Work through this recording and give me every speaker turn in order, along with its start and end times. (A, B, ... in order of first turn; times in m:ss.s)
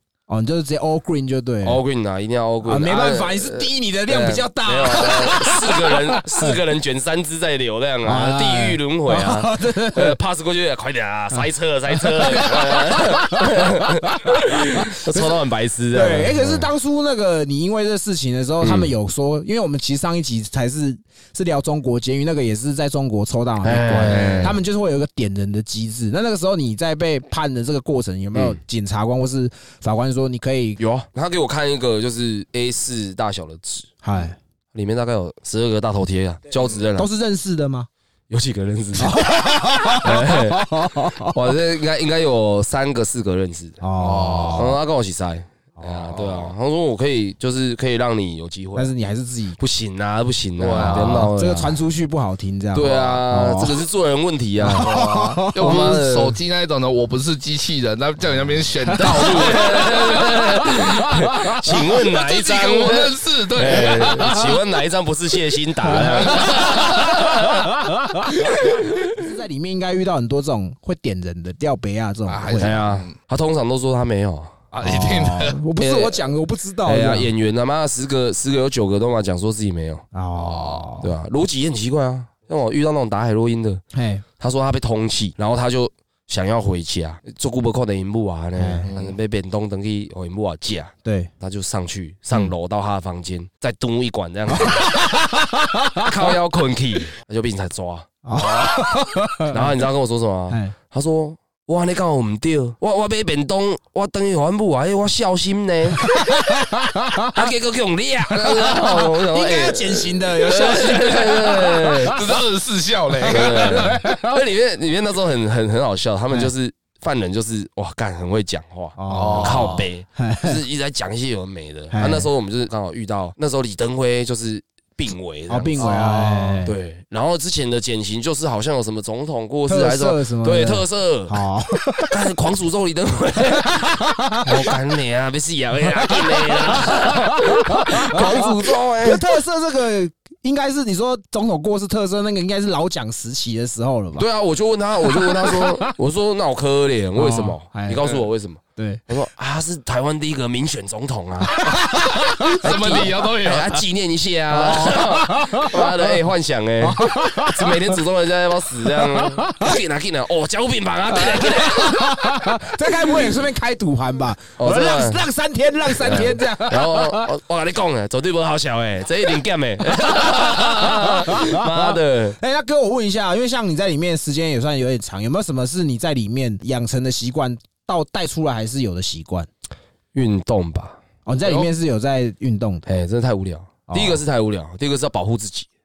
0:00.3-0:01.8 A
0:01.6-0:16.7 B
0:02.6-0:06.6 A
0:08.0-0:10.2 A
0:11.3-0:30.8 A
0:18.6-0:18.9 B
0:23.6-0:24.6 B
0:24.1-0:24.5 C
0:28.3-0:28.6 B
0:30.8-0:33.9 B
0:34.0-0:34.4 A
0:34.7-0:37.1 B
0:37.0-0:37.9 A
0:38.3-0:39.2 B
0:39.0-0:41.4 A
0:39.9-0:43.8 B
0:43.8-0:44.7 A
0:44.0-0:44.7 C
0:44.5-0:48.9 B
0:45.8-0:46.1 A
0:46.2-0:46.5 C
0:48.7-0:49.6 A
0:49.6-0:51.8 B
0:50.6-0:51.3 C
0:50.7-0:53.8 A
0:52.7-0:54.9 B
0:52.8-0:53.1 C
0:54.6-0:56.0 A
0:54.8-1:00.2 C
0:55.6-0:56.4 B
0:58.9-1:08.3 B
1:00.4-1:01.5 A
1:02.1-1:04.4 C
1:04.0-1:04.5 A
1:05.9-1:12.8 A
1:12.3-1:13.2 C
1:12.6-1:14.6 B
1:14.7-1:15.6 C
1:14.8-1:17.3 A
1:15.8-1:16.3 B
1:16.8-1:20.1 B
1:20.1-1:21.1 A
1:20.4-1:21.0 C
1:21.0-1:23.8 B
1:23.9-1:24.2 A
1:24.4-1:35.0 B
1:28.6-1:28.9 A
1:28.9-1:29.2 C
1:31.0-1:31.3 A
1:34.5-1:36.1 A
1:36.0-1:38.1 B
1:38.2-1:39.7 A
1:38.4-1:38.7 C
1:39.5-1:46.2 B
1:40.5-1:40.7 A
1:46.1-1:47.4 A
1:47.2-1:52.2 B
1:48.4-1:52.3 A
1:52.1-1:53.9 C
1:53.3-2:11.4 B
1:53.3-1:54.4 A
1:59.0-2:00.6 A
1:59.1-1:59.8 C
2:01.9-2:02.3 A
2:05.5-2:06.7 A
2:05.8-2:06.6 C
2:09.7-2:12.1 A
2:12.0-2:13.7 B
2:13.5-2:14.7 A
2:14.4-2:19.4 B
2:16.0-2:24.3 A
2:24.2-2:31.6 B
2:25.0-2:25.9 A
2:27.2-2:28.1 A
2:28.8-2:29.1 A
2:31.4-2:33.0 A
2:31.9-2:33.8 C
2:32.6-2:42.9 B
2:34.5-2:36.1 A
2:36.8-2:37.9 A
2:38.9-2:39.7 A
2:41.2-2:47.3 A
2:44.6-2:45.3 B
2:45.9-2:52.4 B
2:50.0-2:59.5 A
3:00.1-3:01.0 B
3:01.3-3:02.9 A
3:02.9-3:05.7 B
3:03.9-3:04.2 A